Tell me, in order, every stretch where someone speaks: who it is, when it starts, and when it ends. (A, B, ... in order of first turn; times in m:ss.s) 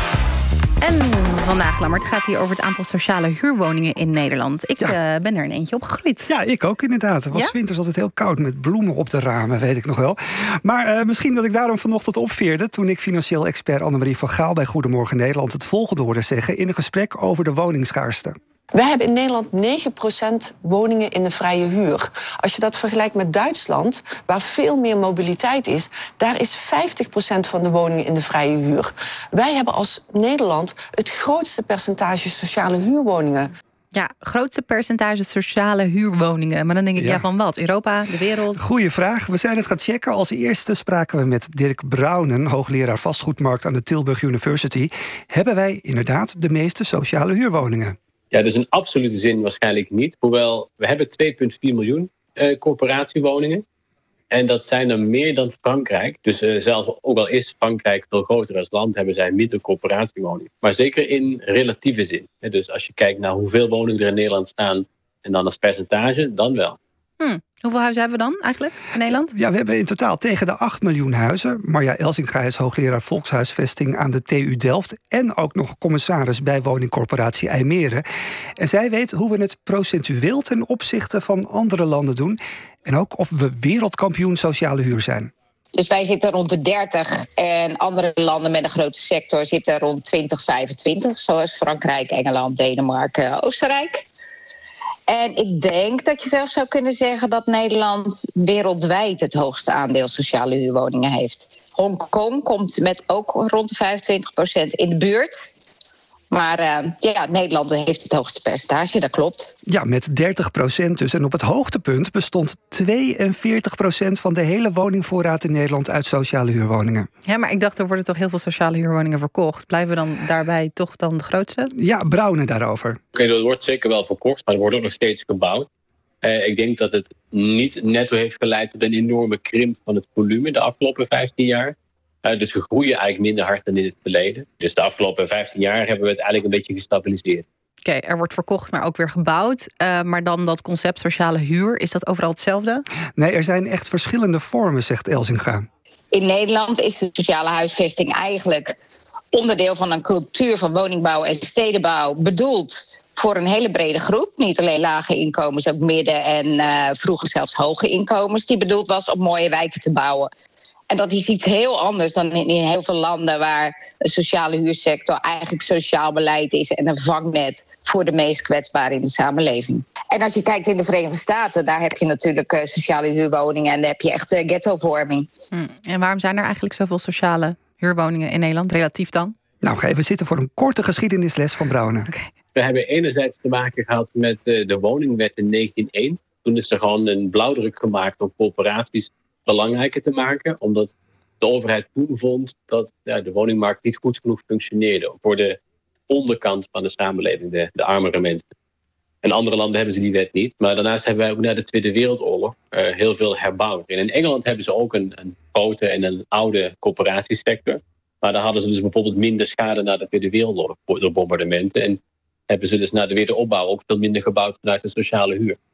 0:00.8-0:06.3 A
0:06.3-0:18.4 B
0:18.7-0:33.5 C
0:33.9-0:38.6 A
0:37.0-0:37.2 B
0:38.6-0:48.0 B
0:48.3-0:53.6 D
0:54.3-1:06.8 D
1:07.2-1:09.3 A
1:09.2-1:18.0 B
1:18.6-1:25.3 B
1:25.7-1:34.0 E
1:35.1-1:45.3 E
1:46.3-1:49.5 E
1:49.7-1:57.1 B
1:57.3-2:01.7 A
2:01.8-2:03.0 B
2:03.1-2:05.7 D
2:06.2-2:17.4 D
2:17.8-2:22.8 A
2:23.2-2:25.6 B
2:26.1-2:28.7 E
2:29.3-2:40.3 E
2:40.9-2:55.3 E
2:55.5-2:59.3 A
2:59.6-3:02.1 B
3:02.5-3:18.4 D
3:19.2-3:35.6 D